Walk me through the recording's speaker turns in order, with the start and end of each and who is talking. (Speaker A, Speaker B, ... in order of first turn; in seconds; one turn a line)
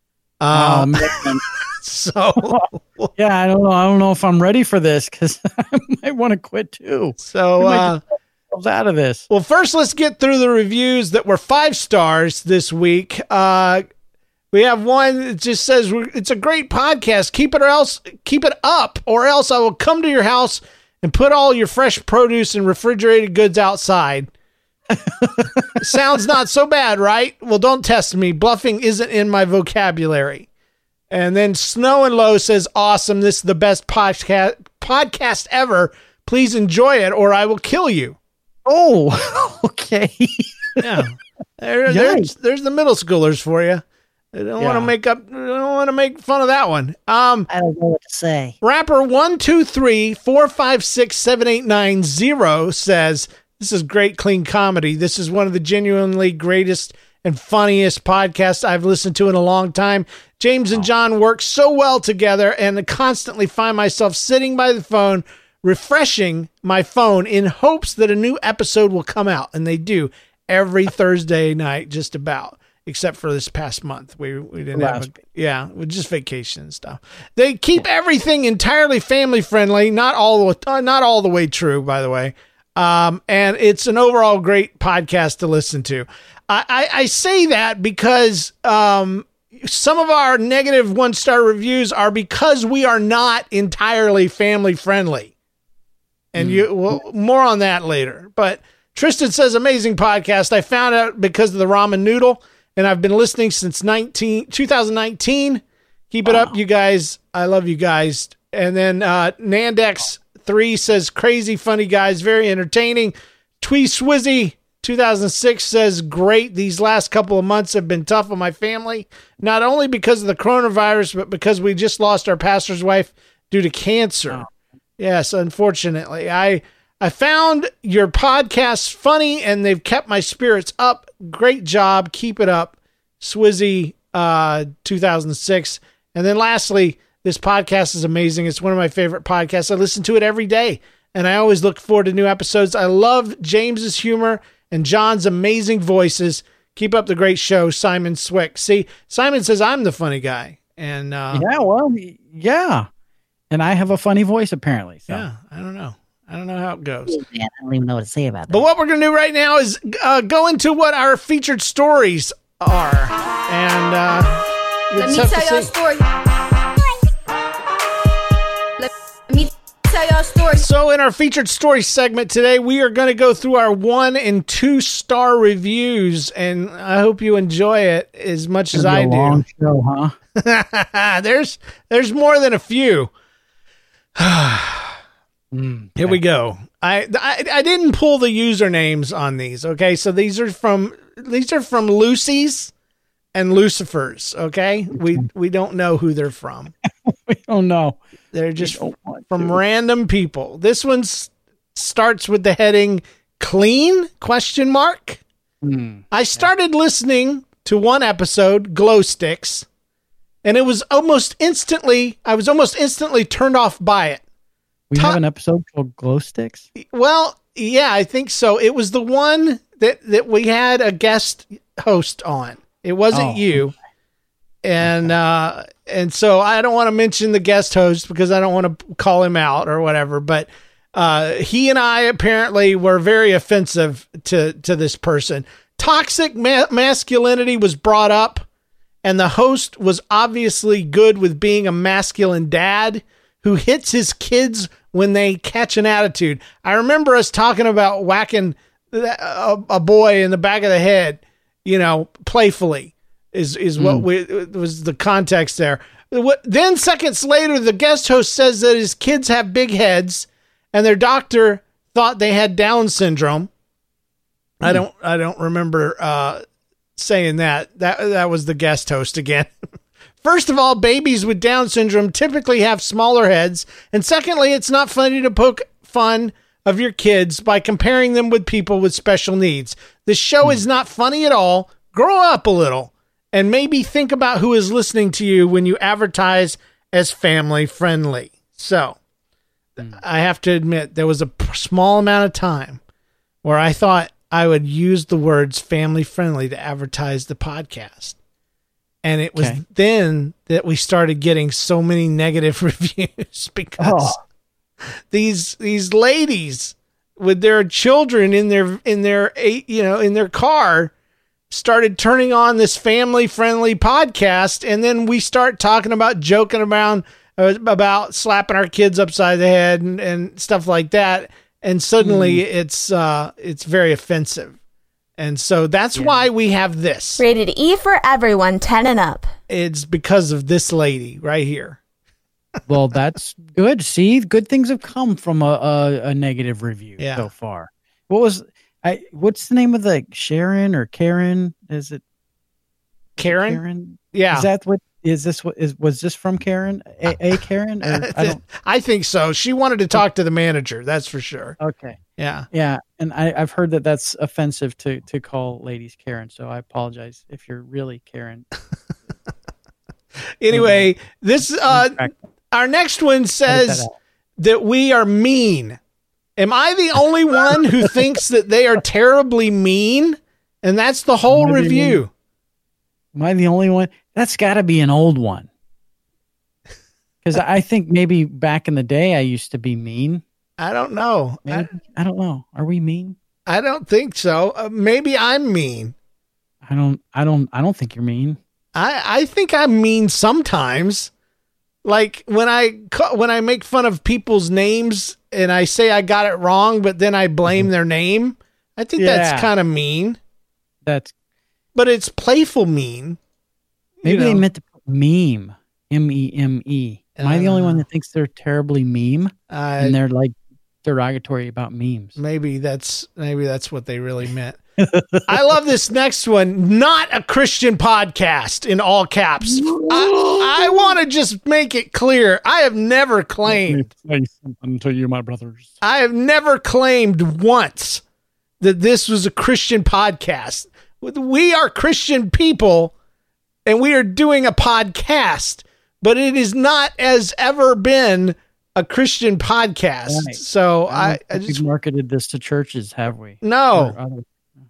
Speaker A: 0.4-3.1
Speaker B: 0.5-1.4
Speaker B: 2.5-8.0
Speaker A: 7.2-8.0
Speaker B: 8.5-9.2
Speaker A: 9.3-13.9
Speaker A: 14.5-24.3
Speaker B: 24.9-25.7
Speaker A: 25.8-30.5
Speaker A: 31.1-38.2
Speaker B: 38.6-40.8
Speaker A: 40.8-47.5
Speaker B: 41.9-42.3
Speaker B: 44.6-44.9
Speaker C: 47.5-48.6
Speaker A: 48.6-95.3
Speaker B: 74.7-75.1
Speaker A: 96.3-124.4
Speaker B: 96.4-96.7
Speaker B: 106.3-106.5
Speaker A: 125.0-151.5
Speaker B: 151.3-152.9
Speaker B: 153.5-155.3
Speaker A: 155.1-157.2
Speaker C: 157.1-158.7
Speaker A: 158.5-165.7
Speaker D: 164.9-166.1
Speaker D: 168.8-170.7
Speaker A: 170.6-179.4
Speaker B: 178.7-180.1
Speaker A: 180.4-183.1
Speaker A: 184.2-185.0
Speaker B: 185.5-186.2
Speaker A: 186.0-192.7
Speaker A: 193.3-196.7
Speaker B: 195.0-195.3
Speaker B: 197.1-198.0
Speaker A: 198.3-205.2
Speaker B: 198.6-199.6
Speaker B: 205.6-206.4
Speaker A: 206.1-209.7
Speaker A: 210.4-214.2
Speaker B: 214.9-216.7
Speaker A: 216.8-223.7
Speaker B: 223.1-223.7
Speaker A: 224.6-238.5
Speaker B: 224.8-225.1
Speaker A: 239.0-263.5
Speaker B: 253.8-254.1
Speaker A: 264.6-266.4
Speaker A: 266.9-269.5
Speaker A: 270.2-289.0
Speaker A: 289.8-292.8
Speaker A: 293.4-298.2
Speaker A: 299.0-304.1
Speaker B: 299.4-299.6
Speaker B: 303.8-304.2
Speaker A: 305.1-310.9
Speaker A: 311.5-324.6
Speaker B: 322.0-322.4
Speaker A: 325.2-327.2
Speaker B: 325.9-326.2
Speaker E: 327.2-329.3
Speaker A: 329.5-331.8
Speaker B: 332.6-342.0
Speaker A: 337.0-337.3
Speaker A: 343.2-343.6
Speaker B: 343.2-348.4
Speaker A: 344.1-344.5
Speaker A: 347.8-351.6
Speaker B: 351.6-352.0
Speaker A: 352.2-352.5
Speaker B: 352.5-358.5
Speaker A: 360.4-363.9
Speaker B: 360.5-360.9
Speaker B: 361.6-362.1
Speaker B: 363.5-363.9
Speaker A: 364.4-365.8
Speaker A: 366.4-372.1
Speaker B: 371.3-372.0
Speaker B: 373.1-375.5
Speaker B: 377.2-380.2
Speaker A: 380.6-381.7
Speaker B: 381.4-383.2
Speaker A: 383.4-385.9
Speaker B: 386.6-388.4
Speaker A: 388.7-391.1
Speaker A: 391.8-400.2
Speaker B: 399.0-399.5
Speaker B: 400.8-401.1
Speaker A: 401.7-403.2
Speaker A: 404.0-404.4
Speaker B: 404.0-412.2
Speaker A: 407.2-407.8
Speaker A: 409.5-410.0
Speaker A: 412.2-414.6
Speaker B: 414.8-415.2
Speaker A: 415.3-423.9
Speaker B: 419.4-420.9
Speaker B: 423.5-425.7
Speaker A: 425.8-428.0
Speaker A: 428.6-432.9
Speaker A: 433.6-441.6
Speaker B: 440.1-444.3
Speaker A: 443.4-443.9